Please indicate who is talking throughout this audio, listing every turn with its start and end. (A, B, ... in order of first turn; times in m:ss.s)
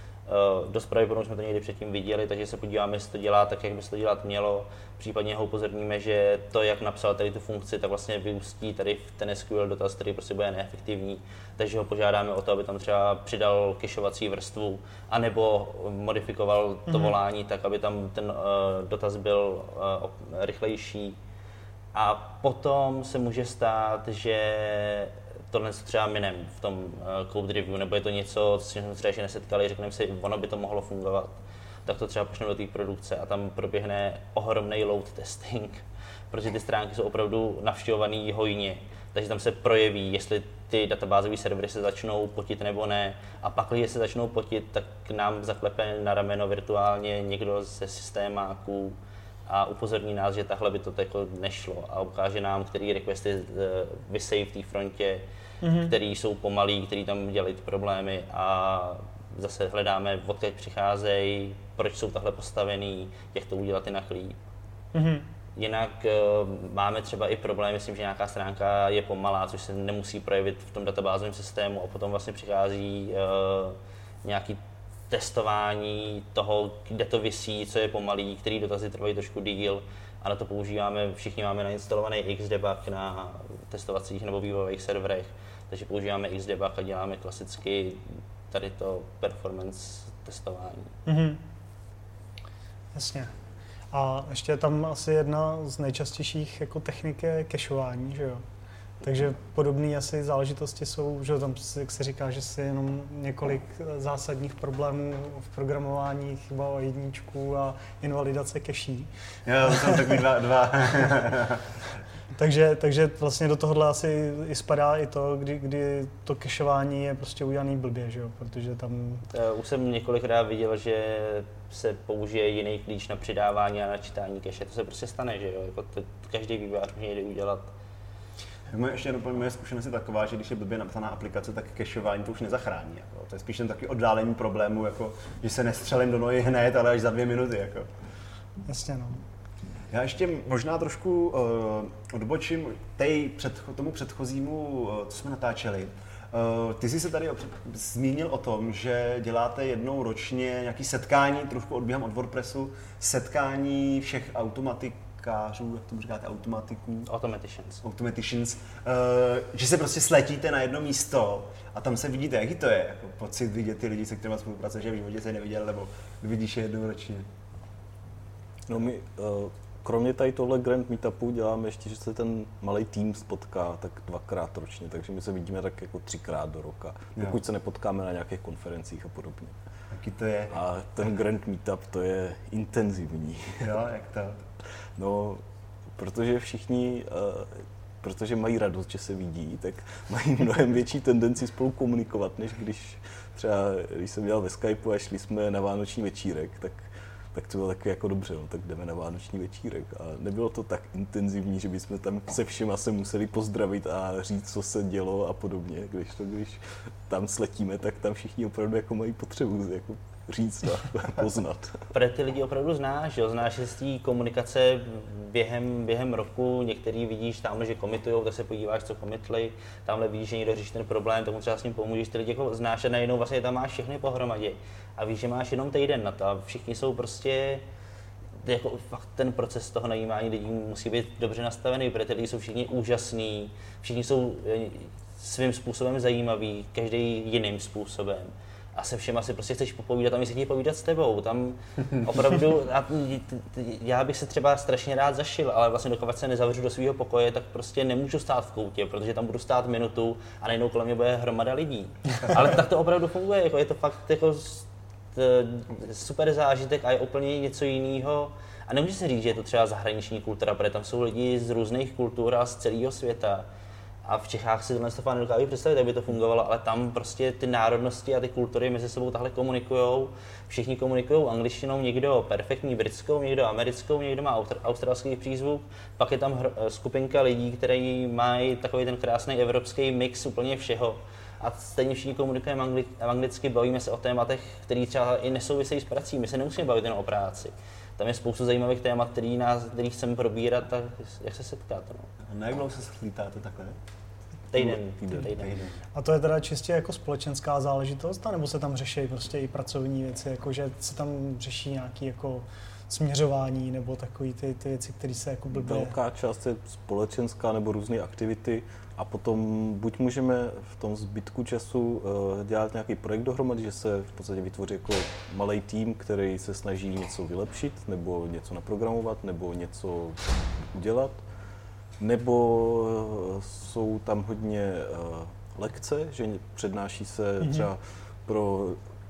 0:00.3-0:21.2 A
0:16.9-0:17.2 B
0:21.9-0:31.3 A
0:31.9-0:49.0 A
0:49.5-0:55.2 A
0:55.6-0:55.9 B
0:55.8-1:04.4 A
1:04.9-1:05.3 B
1:05.6-1:14.6 A
1:15.1-1:31.0 A
1:31.1-1:31.4 B
1:33.0-1:33.3 B
1:33.9-1:38.4 B
1:39.0-1:49.1 B
1:49.5-1:51.6 C
1:52.4-1:59.3 B
1:59.3-2:07.7 A
2:08.7-2:17.9 C
2:18.7-2:19.2 B
2:19.9-2:37.1 C
2:37.1-2:37.8 A
2:37.8-2:47.3 C
2:48.7-2:59.6 D
2:59.9-3:00.6 C
3:00.5-3:03.6 D
3:03.6-3:04.4 C
3:05.0-3:05.4 D
3:06.0-3:31.8 D
3:31.9-3:47.6 A
3:48.4-4:23.5 A
4:24.1-4:52.1 A
4:52.3-4:53.8 C
4:54.5-4:55.6 A
4:54.5-4:55.4 D
4:55.3-4:55.8 C
4:56.0-5:06.0 B
5:05.5-5:20.2 D
5:20.7-5:21.2 D
5:22.0-5:28.8 D